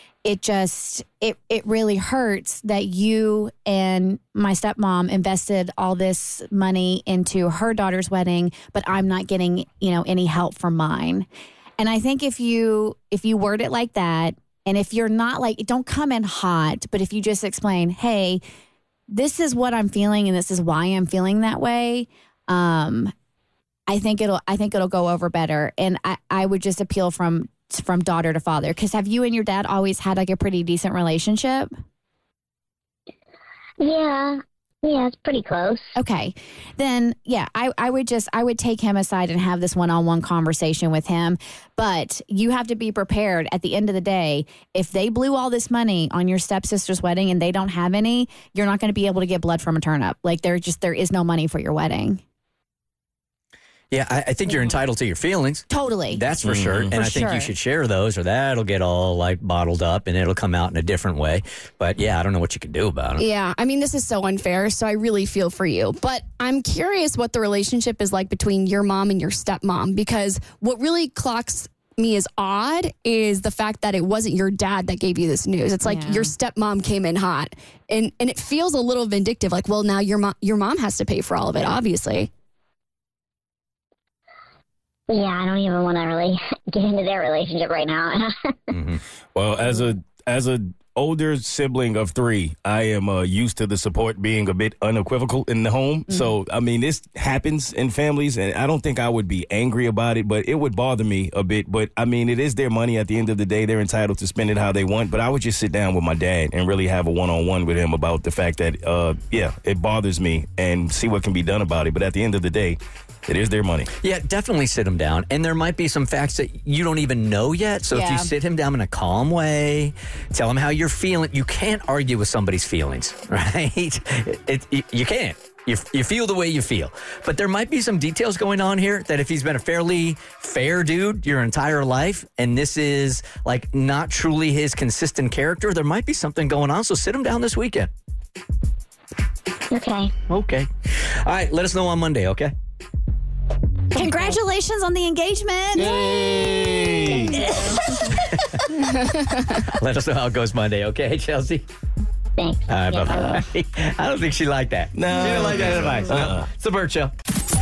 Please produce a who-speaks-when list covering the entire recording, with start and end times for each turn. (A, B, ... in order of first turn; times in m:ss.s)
0:00.2-0:11.3 A
0:11.8-0:18.4 A
0:19.1-0:23.1 A
0:23.9-0:31.7 A
0:33.8-0:35.9 B
0:36.0-0:52.2 A
0:53.9-1:03.2 C
0:55.7-0:56.2 A
0:56.4-0:57.1 D
0:56.9-0:57.5 A
1:03.2-1:22.3 E
1:15.8-1:16.3 A
1:25.1-1:28.6 B
1:28.7-1:29.0 C
1:29.4-1:53.9 D
1:54.0-2:17.9 C
1:57.9-1:58.3 A
2:19.7-2:20.1 B
2:20.3-2:22.5 C
2:23.9-2:26.0 A
2:25.8-2:27.5 D
2:29.8-2:31.6 C
2:32.4-2:33.4 B
2:32.7-2:37.1 C
2:35.0-2:36.5 D